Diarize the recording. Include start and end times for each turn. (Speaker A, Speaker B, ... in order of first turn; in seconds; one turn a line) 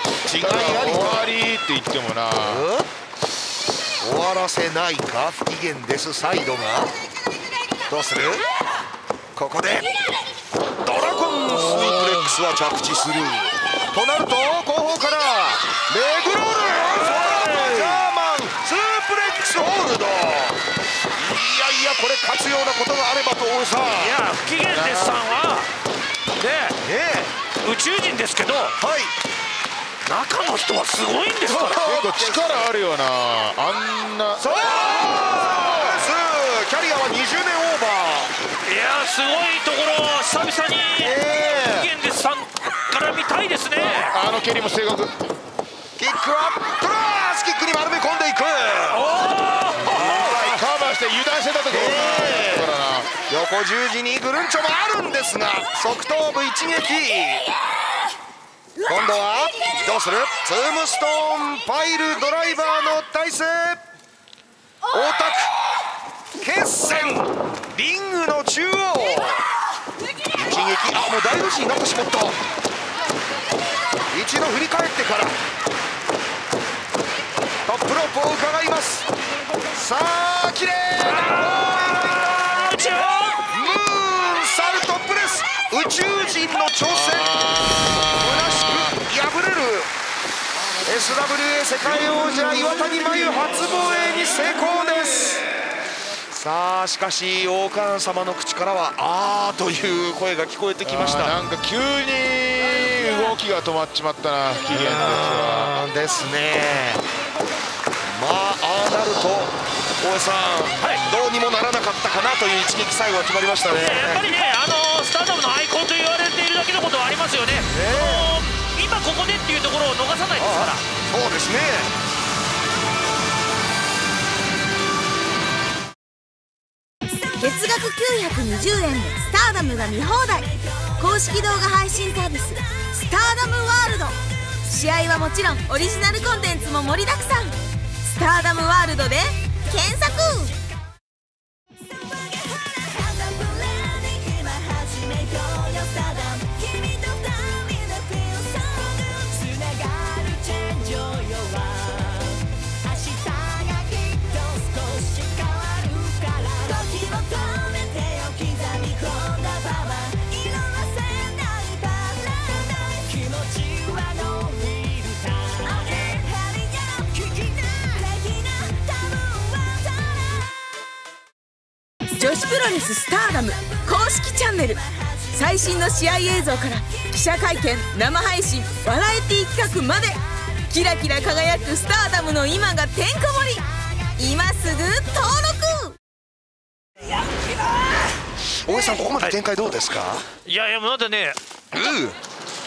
Speaker A: 0.2-1.3
Speaker B: 0.4-2.6
Speaker A: 2.4-2.9
Speaker A: 4.0-6.9
Speaker A: 7.9-8.4
Speaker A: 9.3-9.9
Speaker A: 10.8-20.6
Speaker B: 11.5-12.2
Speaker C: 16.8-18.0
Speaker A: 21.1-24.2
Speaker C: 24.0-25.7
Speaker B: 24.5-25.2
Speaker C: 26.4-26.8
Speaker A: 26.8-27.3
Speaker C: 27.6-28.8
Speaker A: 28.8-29.1
Speaker C: 30.0-31.8
Speaker A: 31.4-32.7
Speaker B: 31.8-34.5
Speaker A: 34.4-38.3
Speaker B: 35.4-36.0
Speaker C: 38.6-44.1
Speaker A: 41.0-41.9
Speaker B: 43.8-45.1
Speaker A: 46.0-49.0
Speaker C: 48.9-50.3
Speaker B: 49.8-53.1
Speaker A: 49.9-50.6
Speaker A: 51.7-52.7
Speaker A: 53.3-57.5
Speaker A: 58.8-63.8
Speaker A: 64.9-65.5
Speaker A: 66.4-69.4
Speaker A: 70.3-72.4
Speaker A: 74.1-75.4
Speaker A: 77.6-79.1
Speaker A: 79.7-82.8
Speaker C: 81.0-83.4
Speaker A: 83.5-87.4
Speaker B: 86.9-88.9
Speaker A: 87.9-89.9
Speaker A: 90.8-95.5
Speaker A: 96.3-101.3
Speaker B: 100.8-105.7
Speaker A: 104.7-107.0
Speaker A: 108.0-114.3
Speaker C: 113.8-120.8
Speaker A: 117.7-118.3
Speaker A: 120.4-121.9
Speaker D: 127.4-140.6
Speaker D: 172.1-186.0
Speaker A: 188.6-190.3
Speaker C: 190.4-191.4
Speaker A: 191.7-192.2